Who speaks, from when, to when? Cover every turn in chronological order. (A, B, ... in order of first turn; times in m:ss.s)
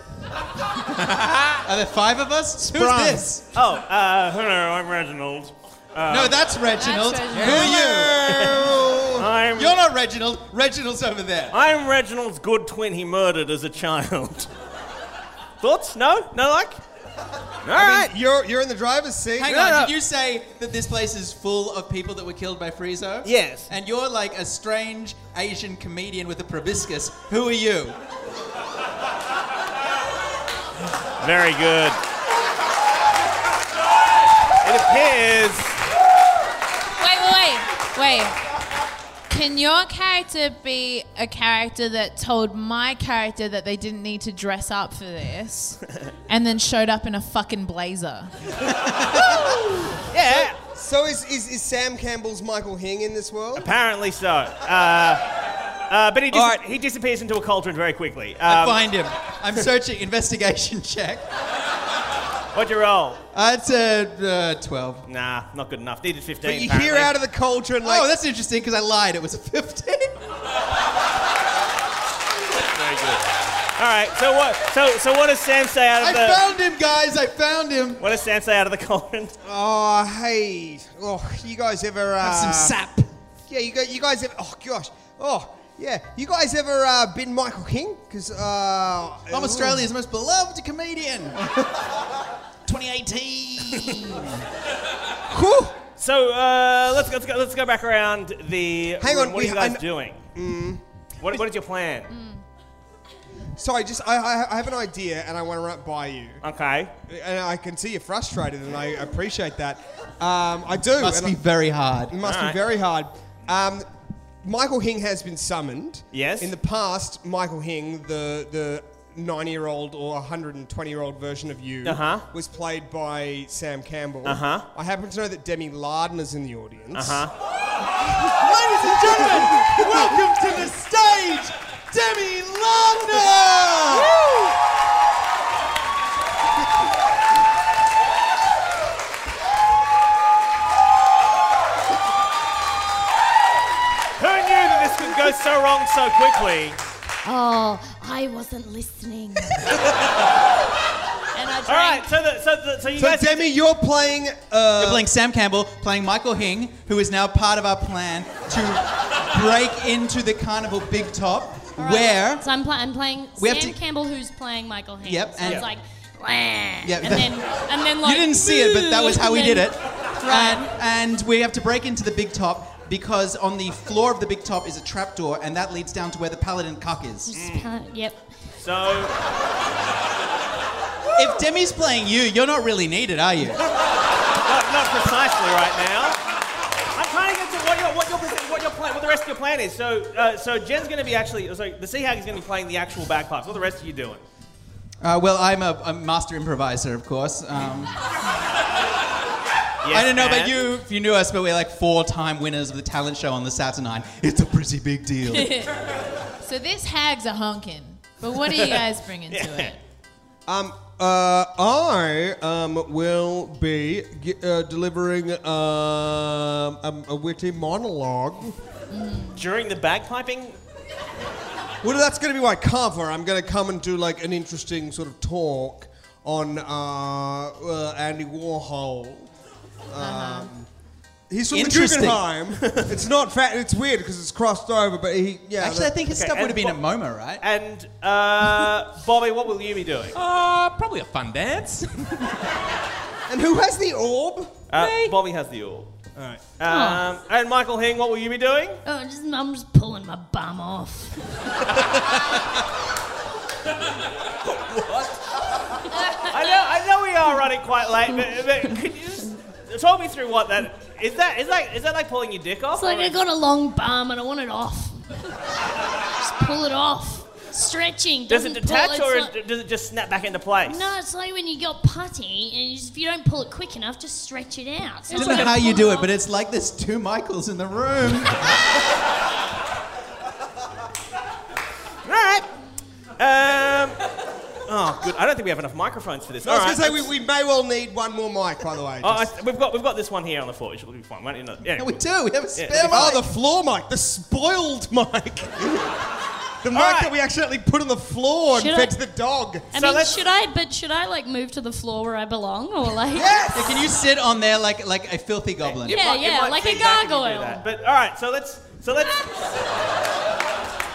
0:00.9-0:01.6 A
0:01.6-0:03.5 B
0:02.6-0:03.2 A
0:03.5-0:06.5 C
0:06.1-0:08.3 B
0:06.8-0:08.1 D
0:07.3-0:09.3 E
0:08.2-0:09.8 C
0:09.6-0:11.6 B
0:11.5-0:14.5 C
0:15.6-0:16.8 C
0:17.6-0:18.1 C
0:17.7-0:19.6 E
0:19.4-0:28.0 B
0:19.5-0:19.9 C
0:23.2-0:23.7 C
0:31.2-0:32.0 C
0:34.6-0:35.8 C
0:37.0-0:38.5 D
0:39.3-0:48.3 D
0:48.7-0:49.2 B
0:49.1-0:53.7 E
0:50.1-0:50.6 C
0:53.6-0:55.2 C
0:55.9-0:58.9 C
0:56.3-0:56.6 B
0:58.5-1:01.2 B
1:02.5-1:03.2 C
1:03.3-1:05.1 B
1:05.1-1:07.2 C
1:06.4-1:08.1 E
1:07.8-1:10.2 B
1:12.7-1:13.3 C
1:13.8-1:16.5 C
1:16.0-1:18.0 B
1:18.0-1:19.3 C
1:19.4-1:22.8 E
1:22.2-1:23.1 B
1:23.5-1:29.9 E
1:29.3-1:31.4 B
1:32.7-1:34.3 B
1:35.3-1:35.8 E
1:36.0-1:40.2 C
1:39.0-1:40.8 E
1:41.2-1:42.1 C
1:42.1-1:42.4 D
1:43.6-1:46.4 E
1:46.4-1:46.9 C
1:47.0-1:53.9 E
1:51.0-1:52.2 B
1:52.2-1:52.6 C
1:54.4-2:07.2 E
1:56.1-1:56.5 C
2:01.8-2:02.3 C
2:04.2-2:04.7 C
2:06.9-2:07.3 C
2:08.2-2:10.7 E
2:08.4-2:14.2 B
2:12.9-2:14.1 E
2:24.2-2:26.8 C
2:27.2-2:29.6 F
2:31.4-2:32.0 F
2:31.4-2:32.0 D
2:31.7-2:33.5 C
2:33.0-2:35.1 E
2:34.8-2:42.5 B
2:41.8-2:50.7 F
2:43.4-2:43.8 B
2:45.0-2:45.7 B
2:45.4-2:45.7 C
2:46.8-2:57.3 B
2:57.2-2:58.2 F
2:57.3-2:57.7 C
2:58.6-2:59.2 C
3:01.2-3:03.6 B
3:04.4-3:06.2 C
3:06.9-3:14.2 C
3:15.0-3:18.0 B
3:19.8-3:20.6 C
3:19.9-3:25.6 B
3:25.3-3:25.7 D
3:26.4-3:29.8 D
3:28.5-3:29.7 C
3:30.5-3:38.6 E
3:38.9-3:39.4 D
3:39.4-3:40.6 C
3:41.8-3:49.3 E
3:49.9-3:50.7 E
3:50.0-3:50.5 D
3:51.3-3:56.0 E
3:51.5-3:52.3 B
3:55.6-3:57.4 B
3:56.1-4:00.2 C
4:00.1-4:02.4 A
4:03.3-4:04.6 E
4:04.7-4:05.9 C
4:04.7-4:05.2 B
4:06.2-4:06.5 E
4:06.6-4:08.8 C
4:06.7-4:07.1 F
4:08.8-4:11.2 F
4:14.4-4:15.2 C
4:16.2-4:23.2 C
4:22.8-4:25.1 F
4:26.0-4:29.3 F
4:28.3-4:30.9 C
4:30.7-4:36.1 F
4:35.1-4:35.7 D
4:35.1-4:38.5 B
4:42.0-4:42.5 C
4:43.2-4:44.1 C
4:44.6-4:47.1 C
4:46.4-4:49.3 E
4:49.0-4:52.0 C
4:51.7-4:53.3 B
4:52.6-4:52.8 C
4:52.7-4:55.8 E
4:56.6-4:59.8 E
4:56.7-4:57.1 C
4:58.5-4:59.0 F
4:59.7-5:03.5 F
4:59.8-5:00.2 C
5:03.1-5:03.9 E
5:03.5-5:06.0 B
5:05.6-5:09.4 C
5:05.8-5:07.6 F